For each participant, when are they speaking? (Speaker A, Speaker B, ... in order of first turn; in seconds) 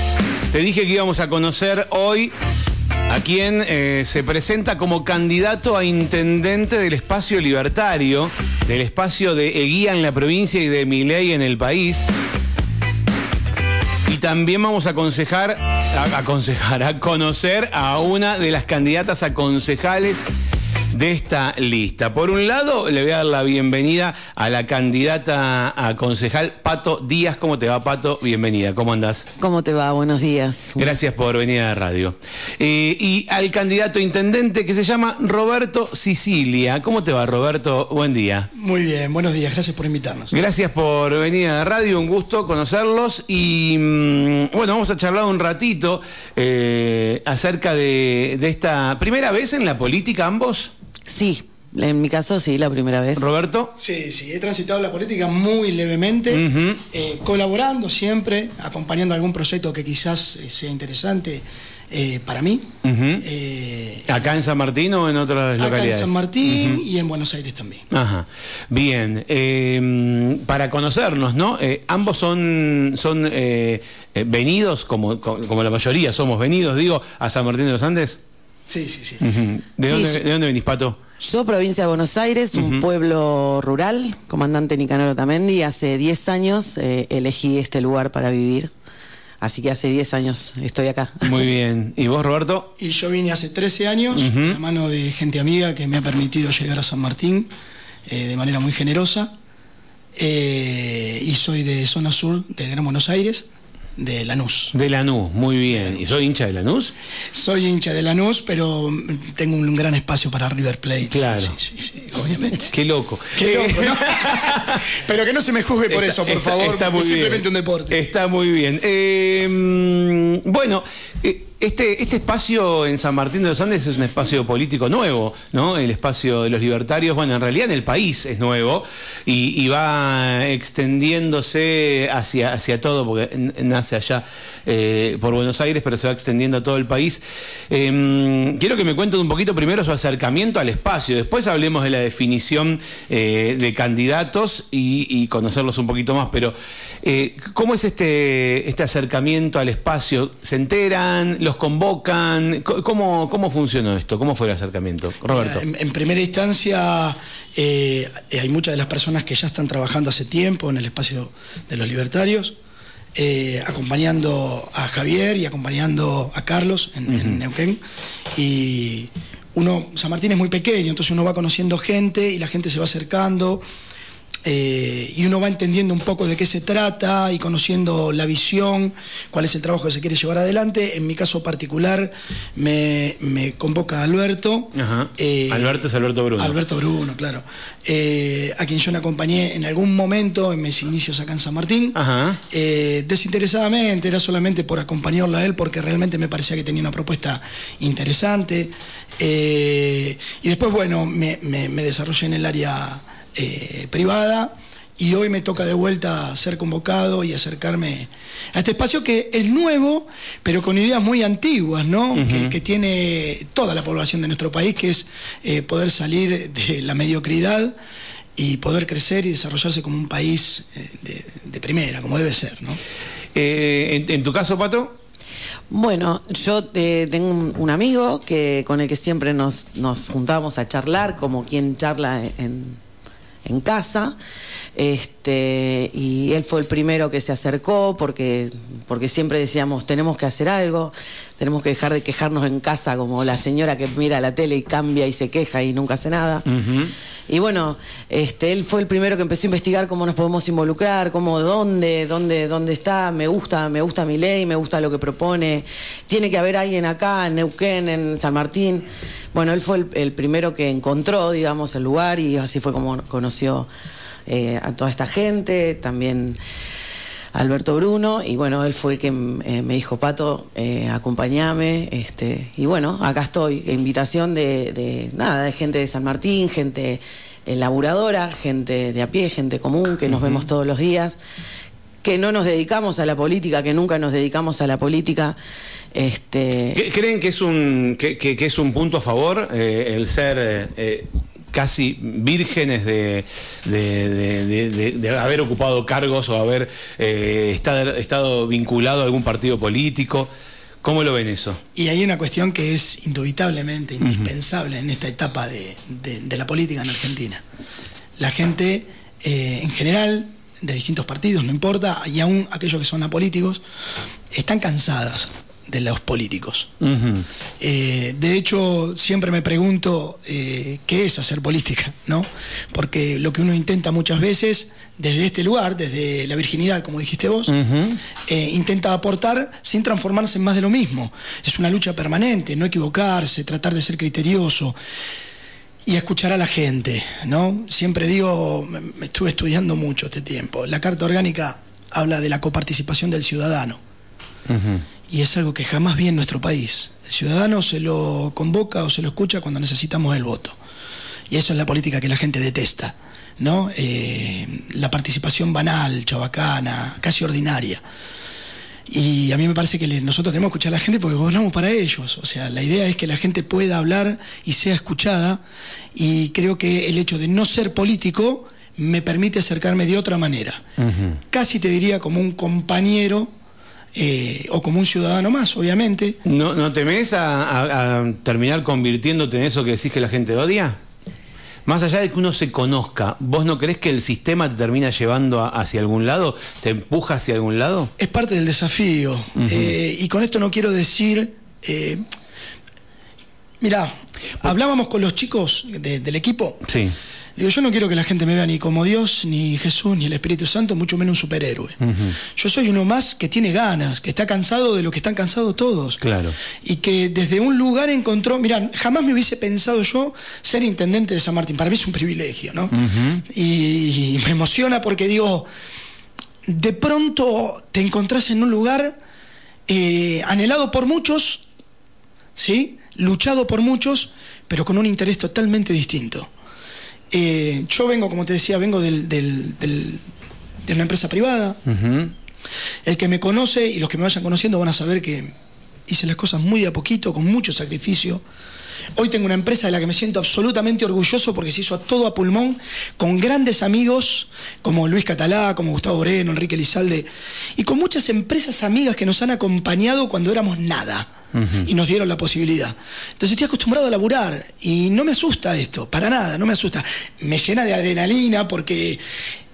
Speaker A: 0.5-2.3, 3.1-12.1, 14.1-20.2, 20.9-29.3, 30.8-38.5, 40.3-50.7, 53.1-53.7, 56.3-56.8, 62.8-63.2, 64.0-66.8, 67.9-78.2, 79.2-81.0, 82.5-82.8, 91.2-92.7, 94.1-94.6, 104.7-106.9, 111.1-111.5, 112.6-114.8, 115.9-155.6, 167.1-167.4, 184.7-186.6, 191.9-192.4, 212.1-212.5, 223.3-225.0, 246.5-246.9, 280.1-280.5, 286.7-300.3, 300.8-301.6, 304.0-304.3, 316.8-317.2, 327.5-328.0, 344.5-344.8, 370.8-371.2, 376.2-380.8, 381.6-387.9, 389.4-389.7, 396.6-396.9, 401.8-402.2, 406.0-406.4, 412.7-413.2, 431.6-432.1, 451.3-451.7
Speaker B: 29.4-31.0, 51.1-53.2, 79.8-80.2, 81.2-88.7, 89.4-91.4, 225.7-232.8, 233.4-234.1, 234.8-246.4, 247.3-263.7, 264.3-266.4, 267.3-281.2, 282.0-285.4, 285.9-286.8
Speaker C: 38.5-40.3, 53.8-62.7, 63.2-64.2, 65.6-67.8, 78.7-79.2, 92.8-97.5, 98.1-99.3, 100.1-104.7, 107.3-112.7, 113.3-118.0, 155.3-162.6, 163.1-167.8, 168.3-173.6, 174.4-185.8, 186.4-191.9, 192.5-217.7, 218.3-222.8, 301.7-307.4, 308.2-313.6, 314.3-316.7, 317.6-327.5, 328.2-334.8, 335.9-343.8, 345.1-350.6, 351.3-357.8, 358.9-365.4, 365.9-370.6, 371.3-373.3, 373.9-376.2, 388.0-392.0, 393.6-396.6, 397.4-401.8, 402.3-406.0, 406.6-412.7, 413.2-415.5, 416.4-418.9, 419.7-421.4, 422.4-426.3, 427.1-430.0, 430.6-431.6, 432.8-435.3, 435.9-438.2, 438.9-451.1, 451.6-459.0